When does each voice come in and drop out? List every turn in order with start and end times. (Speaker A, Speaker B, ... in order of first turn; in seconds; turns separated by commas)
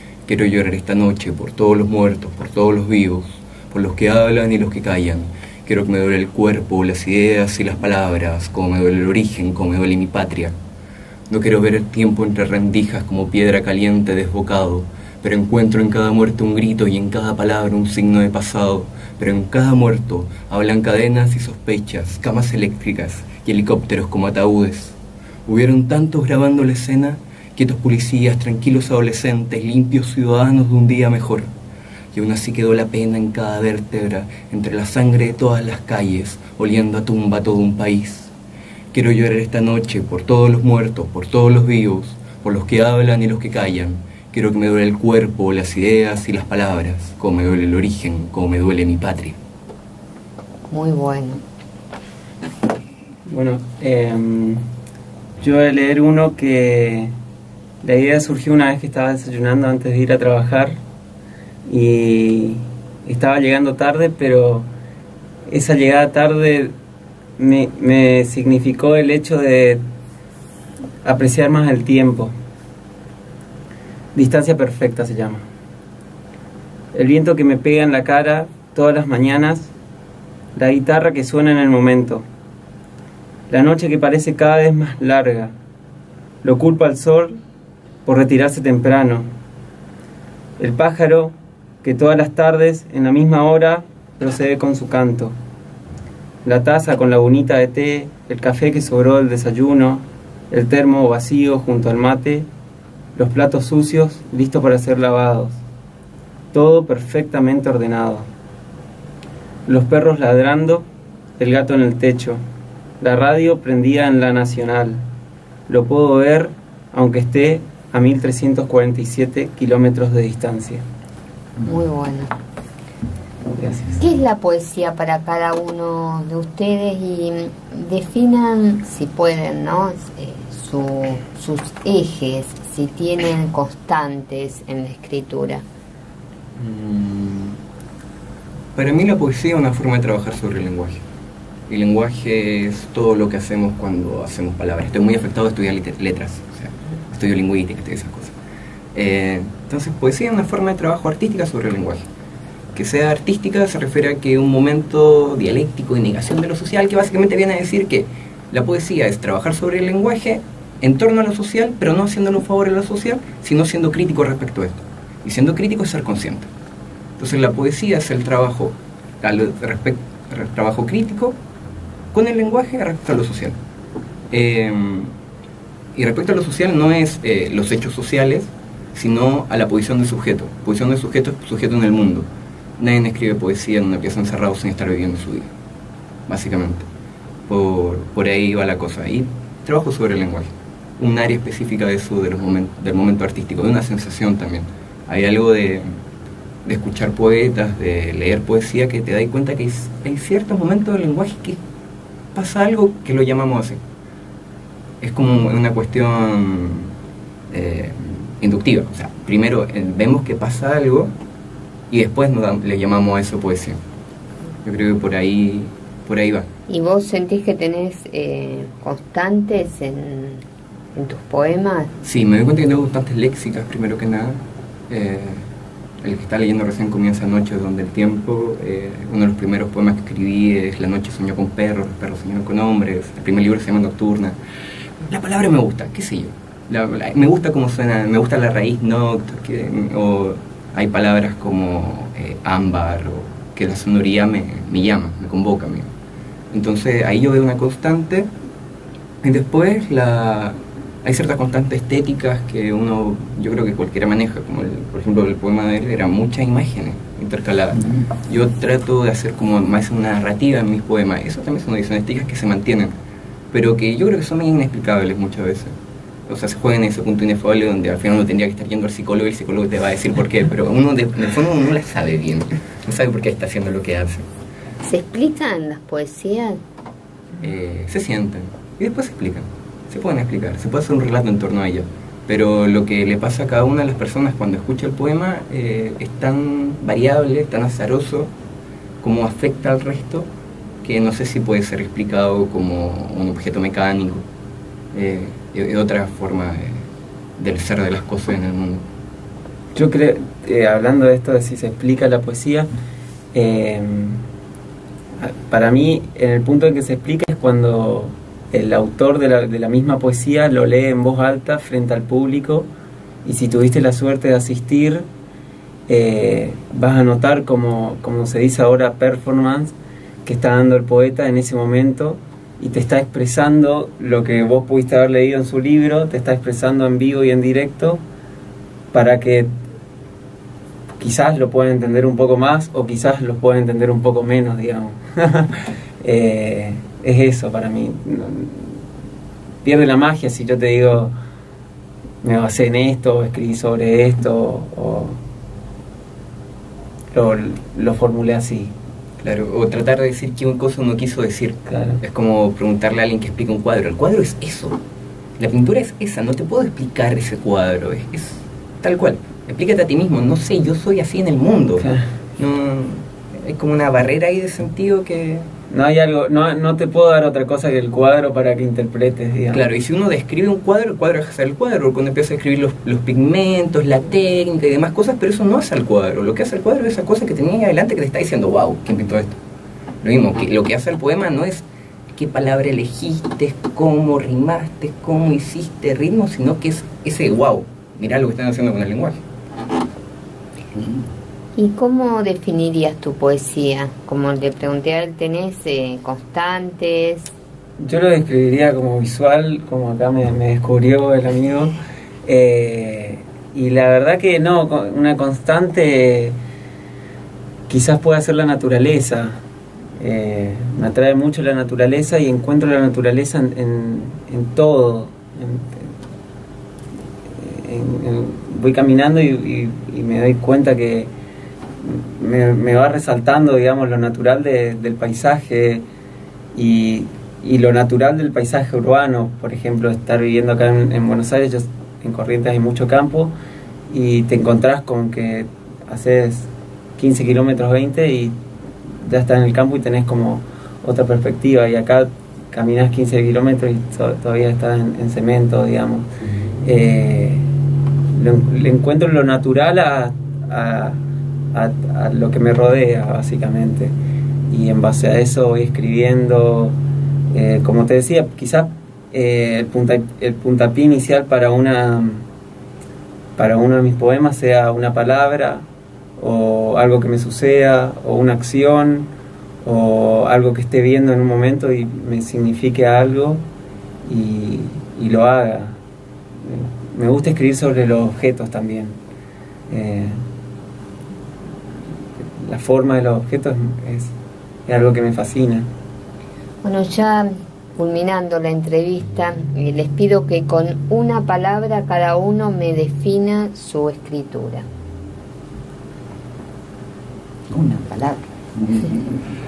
Speaker A: 0.3-10.5, Speaker A: 11.3-25.0, Speaker A: 25.5-31.5, Speaker A: 32.1-38.3, Speaker A: 38.9-49.4, Speaker B: 50.7-51.4, Speaker C: 53.3-54.6, Speaker C: 55.4-57.1, Speaker C: 57.8-60.8, Speaker C: 61.7-64.7, Speaker C: 65.5-66.7, Speaker C: 67.4-69.8, Speaker C: 71.0-72.3, Speaker C: 74.1-75.5, Speaker C: 76.9-79.7, Speaker C: 80.5-82.2, Speaker C: 83.5-85.5, Speaker C: 86.4-87.4, Speaker C: 88.0-89.3, Speaker C: 90.6-95.3, Speaker C: 96.4-102.5, Speaker C: 103.1-105.6, Speaker C: 106.5-108.3, Speaker C: 109.7-110.8, Speaker C: 111.4-112.4, Speaker C: 113.0-115.0, Speaker C: 115.7-120.8, Speaker B: 121.6-122.3, Speaker C: 123.5-124.0, Speaker B: 124.0-135.6, Speaker A: 136.6-137.6, Speaker A: 138.8-141.0, Speaker A: 141.7-148.3, Speaker A: 148.9-152.1, Speaker A: 152.8-166.5, Speaker A: 167.2-171.4, Speaker A: 172.1-173.6, Speaker A: 174.3-175.1, Speaker A: 175.9-182.3, Speaker A: 182.8-185.5, Speaker A: 186.3-186.9, Speaker A: 187.5-195.9, Speaker A: 196.6-201.6, Speaker A: 202.3-203.8, Speaker A: 205.0-206.9, Speaker A: 207.5-211.1, Speaker A: 211.9-213.8, Speaker A: 214.6-216.5, Speaker B: 216.7-220.4, Speaker B: 220.9-221.9, Speaker A: 222.0-225.4, Speaker A: 226.0-234.4, Speaker A: 235.0-245.9, Speaker A: 246.5-248.3, Speaker A: 249.2-262.9, Speaker A: 263.5-265.7, Speaker A: 266.3-274.3, Speaker B: 274.8-276.6, Speaker A: 277.4-288.3, Speaker A: 289.0-290.3, Speaker A: 290.8-294.2, Speaker A: 294.9-296.9, Speaker A: 297.4-298.9, Speaker C: 299.7-302.7, Speaker C: 303.3-304.2, Speaker C: 305.2-312.7, Speaker C: 313.2-315.1, Speaker C: 315.9-328.0, Speaker C: 328.9-329.5, Speaker C: 331.0-338.8, Speaker C: 339.6-341.1, Speaker C: 342.2-345.2, Speaker C: 347.1-348.7, Speaker A: 349.2-354.8, Speaker C: 351.7-352.0, Speaker A: 355.4-365.5, Speaker C: 365.7-369.6, Speaker A: 369.5-379.4, Speaker A: 380.0-389.2, Speaker D: 390.8-391.0, Speaker B: 391.6-397.3, Speaker C: 397.8-406.4, Speaker C: 407.7-409.4, Speaker C: 410.0-415.9, Speaker C: 417.4-421.1, Speaker C: 421.8-425.9, Speaker C: 426.5-433.3, Speaker C: 433.9-438.4, Speaker C: 439.0-446.1, Speaker C: 446.6-447.5, Speaker C: 448.1-451.0, Speaker C: 451.5-453.9, Speaker C: 454.5-456.8, Speaker C: 457.3-462.3, Speaker C: 463.4-465.6, Speaker C: 466.2-469.1, Speaker C: 469.6-473.4, Speaker C: 474.1-475.8, Speaker C: 476.4-479.0, Speaker C: 479.7-480.2, Speaker C: 482.4-484.1, Speaker C: 484.7-485.7, Speaker B: 486.6-494.7, Speaker D: 497.5-499.2